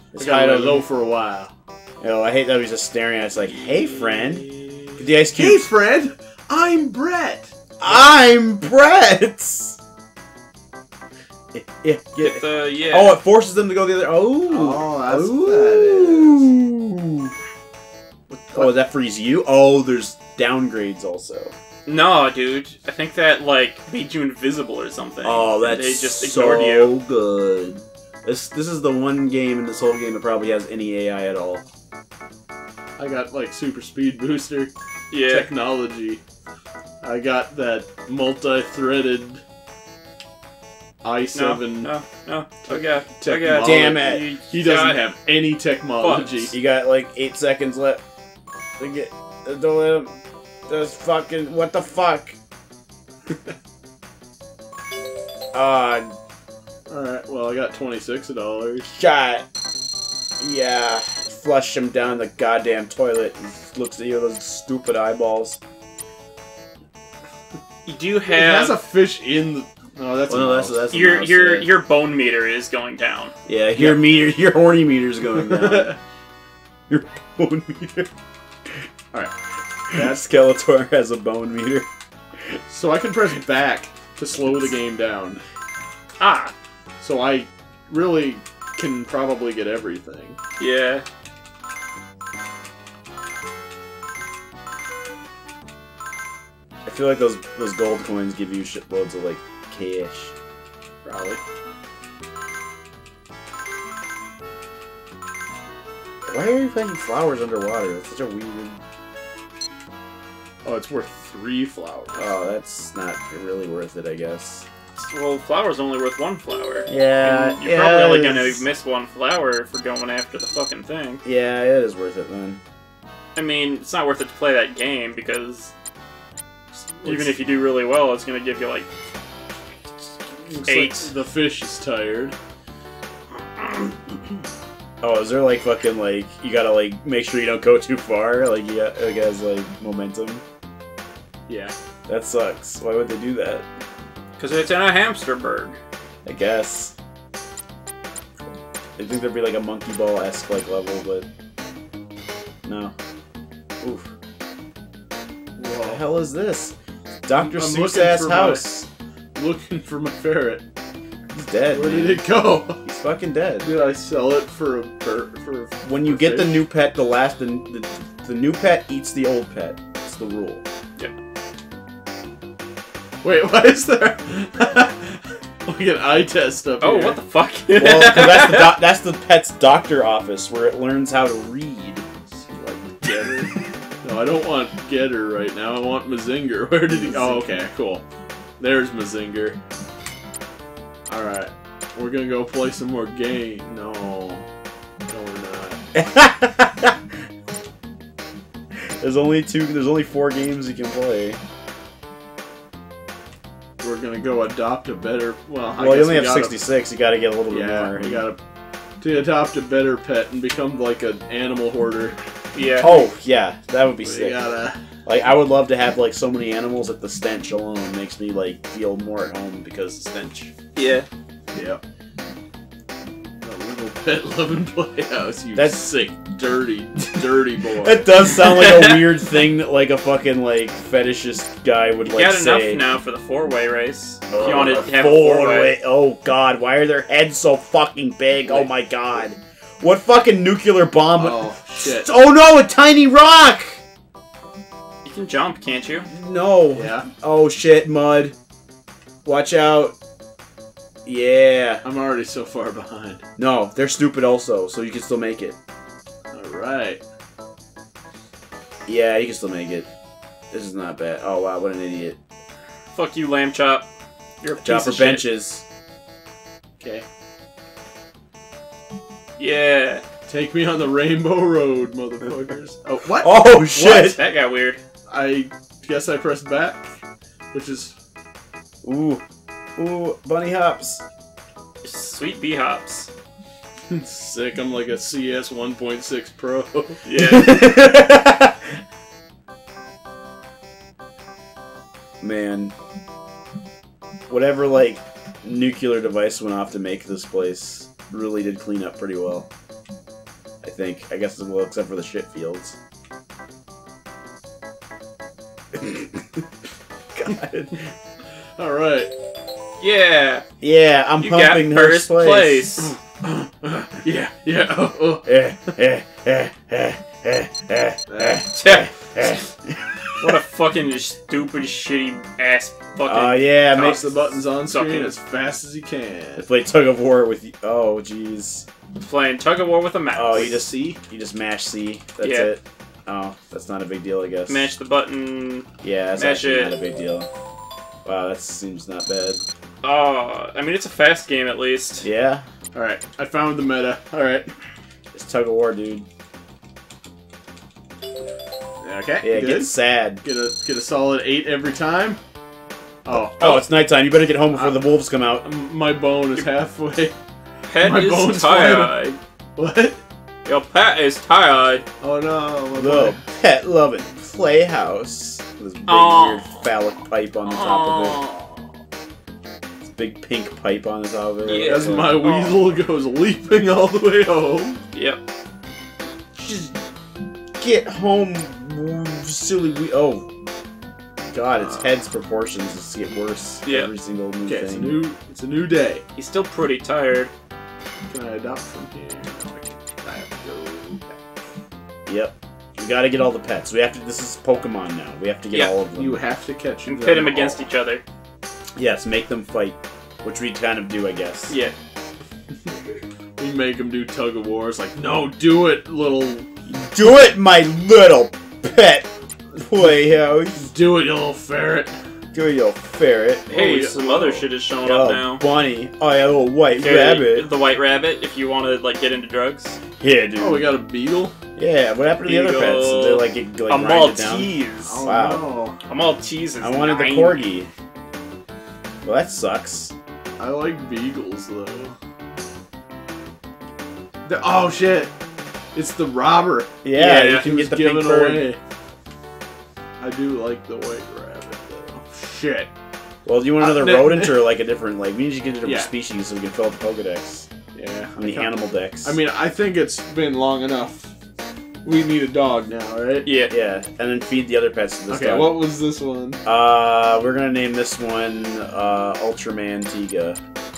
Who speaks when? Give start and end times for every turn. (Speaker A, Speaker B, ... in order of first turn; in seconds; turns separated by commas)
Speaker A: 0.1-0.8, Speaker B: 0.2-1.5, Speaker A: 2.0-5.7, Speaker B: 3.9-8.0, Speaker A: 7.8-9.8, Speaker A: 11.5-17.3, Speaker C: 12.2-13.2, Speaker B: 14.5-16.5, Speaker B: 18.3-18.7, Speaker A: 18.5-21.5, Speaker C: 21.9-26.9, Speaker A: 25.2-31.6, Speaker B: 33.0-34.7, Speaker C: 35.1-35.5, Speaker B: 35.3-36.2, Speaker B: 37.0-39.4, Speaker B: 41.0-41.9, Speaker C: 41.3-45.0, Speaker B: 42.7-46.5, Speaker A: 43.6-44.3, Speaker C: 46.0-46.5, Speaker A: 46.5-48.0, Speaker A: 48.8-50.1, Speaker A: 50.7-52.4, Speaker A: 55.5-56.1, Speaker B: 56.9-58.9, Speaker A: 58.9-59.5, Speaker A: 60.4-65.6, Speaker C: 67.8-68.8, Speaker B: 68.3-70.9, Speaker A: 70.3-71.7, Speaker C: 70.9-73.3, Speaker A: 73.5-75.9, Speaker B: 73.7-74.0, Speaker B: 75.3-76.0, Speaker A: 76.9-78.1, Speaker A: 79.9-81.9, Speaker B: 82.7-85.4, Speaker C: 86.2-86.5, Speaker B: 87.0-90.4, Speaker C: 90.6-91.0, Speaker A: 96.8-100.3, Speaker B: 101.0-101.4, Speaker A: 106.3-108.8, Speaker B: 110.6-112.3, Speaker A: 112.2-114.7, Speaker C: 115.0-121.2, Speaker A: 116.9-118.6, Speaker A: 121.2-122.6, Speaker C: 123.3-125.7, Speaker C: 127.0-128.9, Speaker B: 127.0-127.3, Speaker B: 130.5-132.3, Speaker C: 130.6-131.1, Speaker A: 135.0-140.4, Speaker B: 141.5-141.7, Speaker A: 142.1-143.7, Speaker C: 144.4-145.8, Speaker A: 146.2-146.9, Speaker A: 149.0-151.3, Speaker A: 152.6-152.9, Speaker A: 153.8-154.1, Speaker B: 155.6-156.0, Speaker A: 155.8-156.7, Speaker A: 157.2-158.9, Speaker B: 157.3-158.7, Speaker B: 159.3-160.6, Speaker A: 161.3-162.2, Speaker B: 161.7-162.8, Speaker A: 162.8-163.7, Speaker B: 163.6-166.6, Speaker A: 165.8-170.6, Speaker B: 173.2-177.2, Speaker C: 176.8-178.8, Speaker A: 177.7-182.0, Speaker B: 182.5-188.0, Speaker A: 187.0-187.5, Speaker B: 188.6-189.6, Speaker B: 191.1-194.4, Speaker B: 195.1-195.8, Speaker A: 195.9-197.0, Speaker A: 199.0-201.4, Speaker B: 203.8-206.6, Speaker A: 205.8-208.2, Speaker B: 207.5-208.4, Speaker B: 209.0-212.2, Speaker C: 212.5-213.1, Speaker A: 212.8-214.4, Speaker B: 214.0-214.8, Speaker A: 215.1-220.5, Speaker C: 220.8-221.1, Speaker B: 221.5-221.8, Speaker B: 223.4-228.2, Speaker A: 225.5-225.9, Speaker A: 227.7-232.8, Speaker C: 228.5-229.0, Speaker C: 232.0-235.7, Speaker A: 234.3-243.8, Speaker B: 241.2-242.1, Speaker C: 245.0-246.1, Speaker A: 246.1-248.3, Speaker B: 246.7-247.1, Speaker A: 249.2-249.9, Speaker A: 251.0-251.8, Speaker B: 251.8-253.2, Speaker A: 253.4-255.6, Speaker B: 256.3-257.0, Speaker A: 258.9-259.9, Speaker A: 260.5-262.2, Speaker C: 262.9-263.9, Speaker C: 264.4-265.3, Speaker A: 264.6-265.6, Speaker B: 266.8-267.0, Speaker C: 269.4-270.0, Speaker B: 270.3-273.4, Speaker A: 273.2-274.2, Speaker C: 273.7-274.8, Speaker B: 275.1-276.9, Speaker B: 277.5-277.9, Speaker A: 278.8-279.2, Speaker A: 279.8-281.0, Speaker C: 281.8-283.1, Speaker B: 283.9-287.0, Speaker C: 287.0-287.6, Speaker A: 287.2-288.5, Speaker A: 292.2-292.7, Speaker A: 294.3-299.5, Speaker A: 300.6-302.8, Speaker A: 305.7-306.3, Speaker A: 307.1-307.9, Speaker B: 308.6-309.1, Speaker C: 309.8-310.4, Speaker A: 310.6-312.7, Speaker C: 311.2-312.9, Speaker B: 312.8-315.3, Speaker A: 315.2-320.3, Speaker B: 318.1-318.5, Speaker C: 318.5-318.9, Speaker C: 320.2-324.0, Speaker A: 323.1-324.1, Speaker B: 323.8-326.5, Speaker C: 324.6-325.1, Speaker A: 326.4-328.6, Speaker C: 329.0-330.5, Speaker A: 330.1-334.7, Speaker B: 330.3-331.0, Speaker C: 332.2-332.5, Speaker C: 334.5-336.8, Speaker A: 335.8-337.3, Speaker A: 338.0-339.4, Speaker C: 339.8-342.1, Speaker A: 342.0-342.4, Speaker B: 342.7-344.5, Speaker A: 345.1-346.1, Speaker B: 348.8-352.2, Speaker A: 349.2-350.2, Speaker B: 353.1-353.6, Speaker A: 353.1-355.5, Speaker B: 354.5-354.8, Speaker B: 355.4-357.1, Speaker C: 357.7-359.2, Speaker B: 357.8-360.0, Speaker C: 360.4-361.9, Speaker B: 362.0-363.2, Speaker A: 362.7-368.2, Speaker C: 365.9-366.6, Speaker C: 367.5-368.5, Speaker A: 369.8-372.2, Speaker C: 371.4-372.7, Speaker B: 371.6-374.8, Speaker C: 374.9-375.2, Speaker A: 376.4-376.8, Speaker A: 377.6-380.3, Speaker A: 381.3-385.0, Speaker C: 383.6-383.9, Speaker B: 384.4-386.0, Speaker C: 386.1-387.3, Speaker B: 388.1-391.2, Speaker A: 392.1-396.2, Speaker B: 395.9-397.7, Speaker C: 396.9-398.0, Speaker A: 398.8-401.6, Speaker C: 401.5-401.7, Speaker B: 403.4-406.5, Speaker A: 406.7-410.7, Speaker B: 410.6-412.0, Speaker A: 412.3-413.6, Speaker B: 413.5-414.4, Speaker C: 413.5-415.4, Speaker A: 414.8-417.5, Speaker C: 416.7-419.8, Speaker A: 420.0-420.7, Speaker B: 420.4-421.3, Speaker A: 421.6-425.4, Speaker C: 422.2-425.0, Speaker B: 424.8-425.8, Speaker C: 425.9-427.4, Speaker A: 426.6-427.7, Speaker A: 429.0-429.9, Speaker B: 430.4-431.9, Speaker B: 434.2-435.1, Speaker B: 435.7-438.6, Speaker A: 436.8-438.4, Speaker C: 437.0-437.4, Speaker B: 440.0-442.7, Speaker A: 443.2-447.5, Speaker B: 443.6-444.4, Speaker B: 445.6-445.9, Speaker B: 447.7-451.1, Speaker A: 448.2-449.1, Speaker B: 451.8-453.3, Speaker C: 453.2-453.5, Speaker A: 453.5-455.6, Speaker B: 455.1-456.4, Speaker A: 456.4-460.4